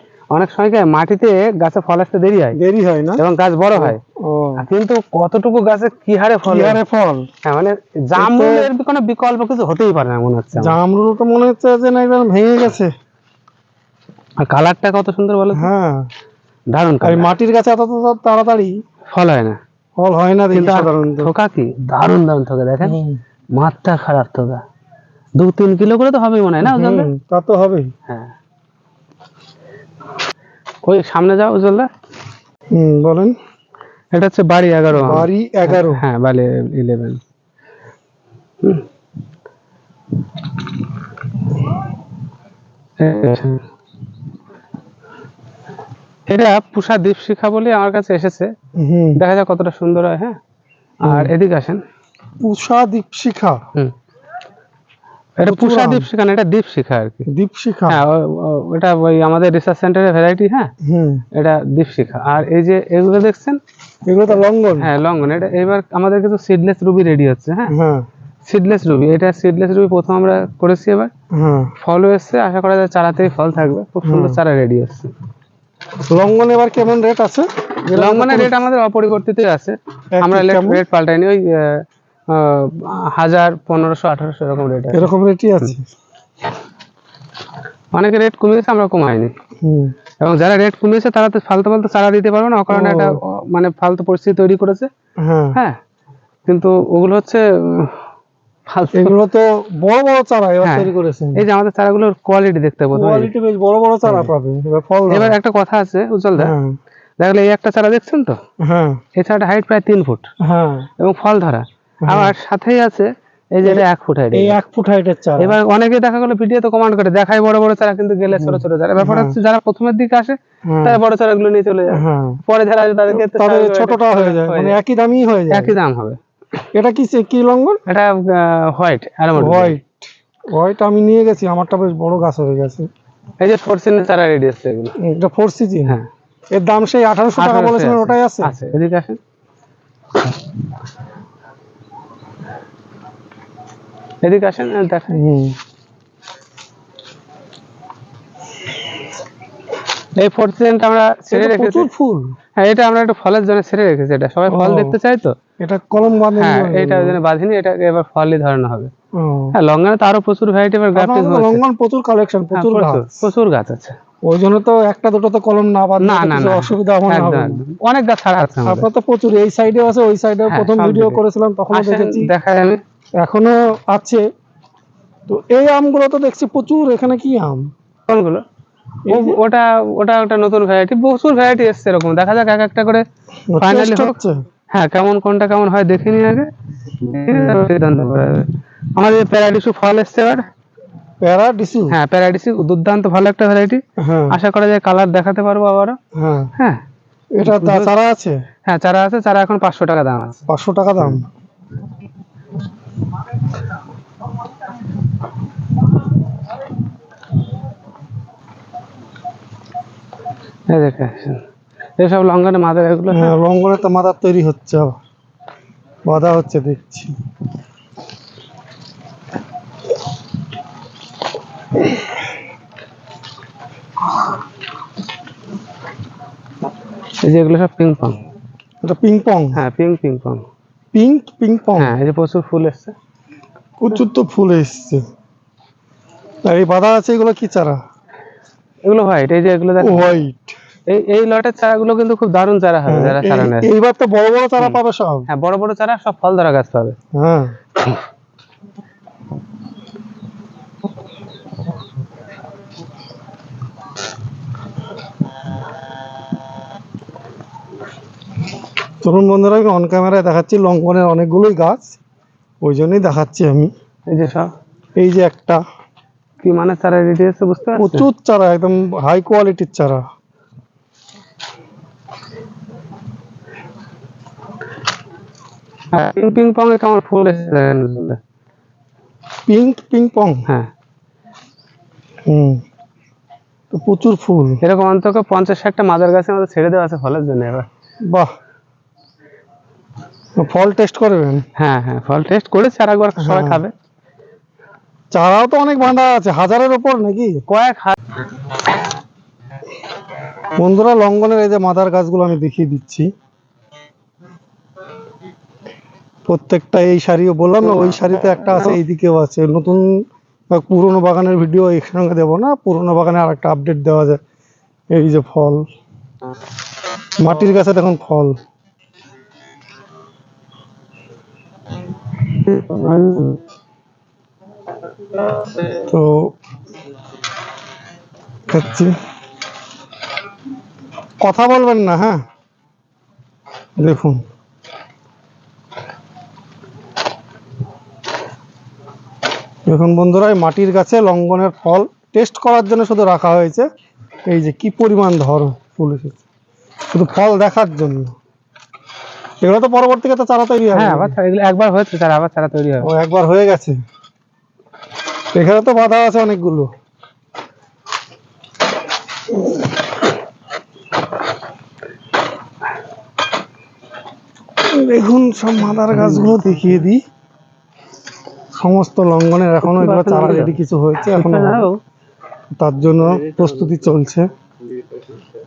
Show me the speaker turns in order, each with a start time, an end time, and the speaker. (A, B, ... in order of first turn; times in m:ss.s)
0:00.3-0:02.6 A
0:02.5-0:03.2 B
0:03.2-0:04.0 A
0:03.8-0:04.7 B
0:04.6-0:06.8 A
0:06.4-0:07.3 B
0:07.4-0:10.8 A
0:08.2-0:08.7 B
0:10.6-0:12.9 B
0:14.4-0:15.7 A
0:15.5-0:16.1 B
0:16.7-0:17.3 A
0:17.0-0:18.8 B
0:19.1-0:19.6 A
0:20.0-0:21.3 B
0:20.5-0:23.0 A
0:22.8-0:23.2 B
0:23.5-0:24.6 A
0:25.4-0:27.1 A
0:26.6-0:27.9 B
0:28.1-0:28.3 A
0:30.8-0:31.9 A
0:32.7-0:33.4 B
0:34.1-0:37.2 A
0:34.9-0:36.0 B
0:43.0-0:43.6 A
0:46.3-0:48.5 A
0:48.8-0:49.2 B
0:49.2-0:50.4 A
0:51.0-0:51.8 A
0:51.1-0:51.3 B
0:52.4-0:53.6 B
0:55.4-0:57.2 A
0:55.5-0:56.1 B
0:57.3-0:58.0 B
0:57.9-1:00.7 A
1:00.8-1:01.2 B
1:01.3-1:03.6 A
1:04.1-1:04.9 B
1:04.8-1:07.8 A
1:07.7-1:08.1 B
1:08.5-1:11.1 A
1:11.3-1:11.7 B
1:11.8-1:15.1 A
1:14.0-1:14.4 B
1:16.1-1:18.6 B
1:17.9-1:25.1 A
1:20.2-1:20.8 B
1:24.9-1:25.9 B
1:27.9-1:29.3 A
1:29.6-1:29.9 B
1:30.2-1:34.9 A
1:32.7-1:33.2 B
1:35.2-1:35.6 B
1:36.5-1:38.0 A
1:38.7-1:39.2 A
1:38.9-1:41.4 B
1:40.6-1:43.3 A
1:43.0-1:45.4 B
1:44.1-1:44.3 A
1:45.1-1:46.6 A
1:46.4-1:46.8 B
1:47.2-1:48.4 A
1:48.6-1:49.0 B
1:49.2-1:50.3 A
1:50.4-1:50.9 B
1:51.0-1:54.6 A
1:52.0-1:52.3 B
1:53.6-1:55.6 B
1:55.4-2:04.8 A
1:58.4-1:59.4 B
2:00.7-2:01.0 B
2:01.9-2:02.4 B
2:03.1-2:05.8 B
2:05.5-2:06.2 A
2:06.7-2:07.8 B
2:07.9-2:09.8 A
2:09.4-2:12.9 B
2:13.4-2:15.0 A
2:15.0-2:16.0 B
2:16.5-2:18.5 B
2:17.4-2:19.2 A
2:24.2-2:25.2 A
2:25.1-2:25.6 B
2:30.2-2:31.9 A
2:31.3-2:32.3 B
2:32.6-2:35.4 A
2:34.5-2:35.0 B
2:35.6-2:37.2 B
2:36.4-2:38.9 A
2:39.2-2:39.6 B
2:39.5-2:41.6 A
2:41.0-2:43.2 B
2:42.5-2:44.0 A
2:44.3-2:47.6 B
2:46.0-2:48.9 A
2:48.6-2:52.3 B
2:50.5-2:51.2 A
2:51.7-2:52.8 A
2:53.2-2:54.2 B
2:55.3-2:57.7 B
2:58.1-2:58.4 A
2:59.1-2:59.4 B
2:59.1-3:03.0 A
3:03.5-3:04.4 B
3:03.6-3:04.2 A
3:04.7-3:10.5 A
3:11.2-3:12.0 B
3:11.9-3:16.0 A
3:14.0-3:14.4 B
3:16.2-3:16.5 B
3:16.6-3:16.8 A
3:17.4-3:18.4 B
3:17.4-3:17.9 A
3:18.7-3:20.4 A
3:20.5-3:21.3 B
3:30.7-3:31.4 A
3:32.0-3:33.4 A
3:33.1-3:35.0 B
3:36.1-3:37.2 B
3:47.2-3:48.2 A
3:48.8-3:49.6 B
3:49.6-3:50.4 A
3:50.9-3:52.0 B
3:51.8-3:53.0 A
3:53.8-3:55.0 B
3:56.4-3:57.8 B
3:58.8-4:00.1 A
3:59.8-4:00.6 B
4:00.9-4:03.7 A
4:02.9-4:05.3 B
4:04.6-4:07.0 A
4:07.1-4:07.6 B
4:19.0-4:22.0 B
4:22.6-4:23.7 B
4:24.1-4:24.5 A
4:25.0-4:25.6 B
4:26.4-4:28.1 A
4:27.8-4:30.0 B
4:35.9-4:38.2 A
4:39.5-4:40.5 B
4:42.3-4:42.6 B
4:43.7-4:44.6 B
4:44.6-4:47.7 A
4:48.0-4:48.3 B
4:50.4-4:51.4 B
4:51.6-4:53.7 A
4:53.2-4:53.6 B
4:55.1-4:57.4 B
4:57.5-4:58.2 A
5:00.5-5:03.1 B
5:06.3-5:09.9 B
5:10.5-5:14.2 B
5:14.9-5:15.6 B
5:17.2-5:18.4 B
5:22.7-5:23.2 A
5:22.7-5:23.2 B
5:25.7-5:26.3 B
5:28.5-5:29.0 B
5:31.2-5:32.2 B
5:33.8-5:34.2 B
5:39.7-5:43.7 B
5:44.3-5:46.2 B
5:46.9-5:48.2 B
5:49.4-5:51.2 B
5:50.7-5:52.9 A
5:52.8-5:53.8 B
5:55.4-5:56.7 B
6:04.7-6:07.0 B
6:05.9-6:06.5 A
6:08.6-6:11.7 B
6:09.6-6:11.8 A
6:12.6-6:14.3 B